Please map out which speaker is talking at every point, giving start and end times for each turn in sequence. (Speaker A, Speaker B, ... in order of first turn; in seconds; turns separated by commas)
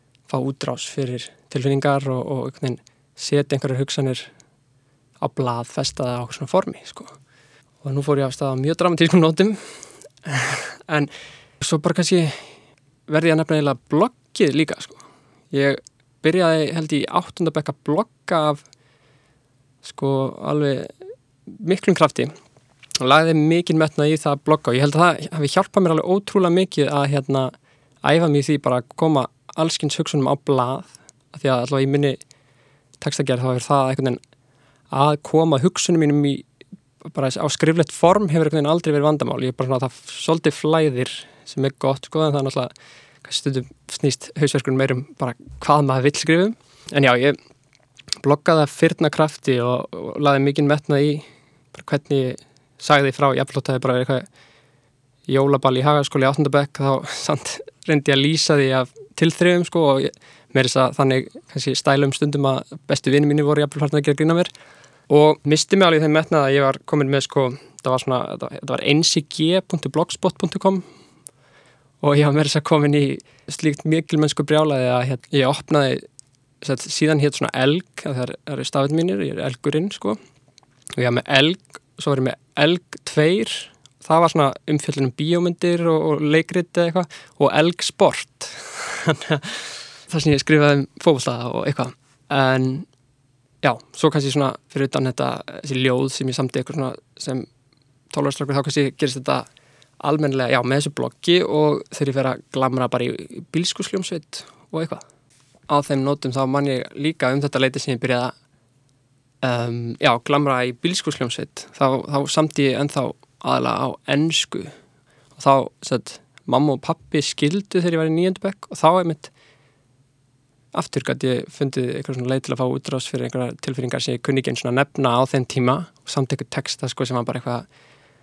Speaker A: 0.3-4.3, Speaker A: 5.2-7.2, Speaker A: 7.8-12.5, Speaker A: 13.1-15.0, Speaker A: 15.5-18.6, Speaker A: 19.8-20.9, Speaker A: 21.5-22.3, Speaker A: 23.0-27.5, Speaker A: 28.0-32.2, Speaker A: 33.0-34.2, Speaker A: 34.9-36.4, Speaker A: 37.0-42.7, Speaker A: 43.2-47.4, Speaker A: 48.2-54.3, Speaker A: 55.3-64.5, Speaker A: 65.1-70.8, Speaker A: 72.0-76.0, Speaker A: 76.6-80.2, Speaker A: 81.0-92.9, Speaker A: 93.6-97.5, Speaker A: 98.1-99.5, Speaker A: 100.0-105.0, Speaker A: 105.7-108.3, Speaker A: 109.4-114.7, Speaker A: 115.3-119.3, Speaker A: 120.7-127.7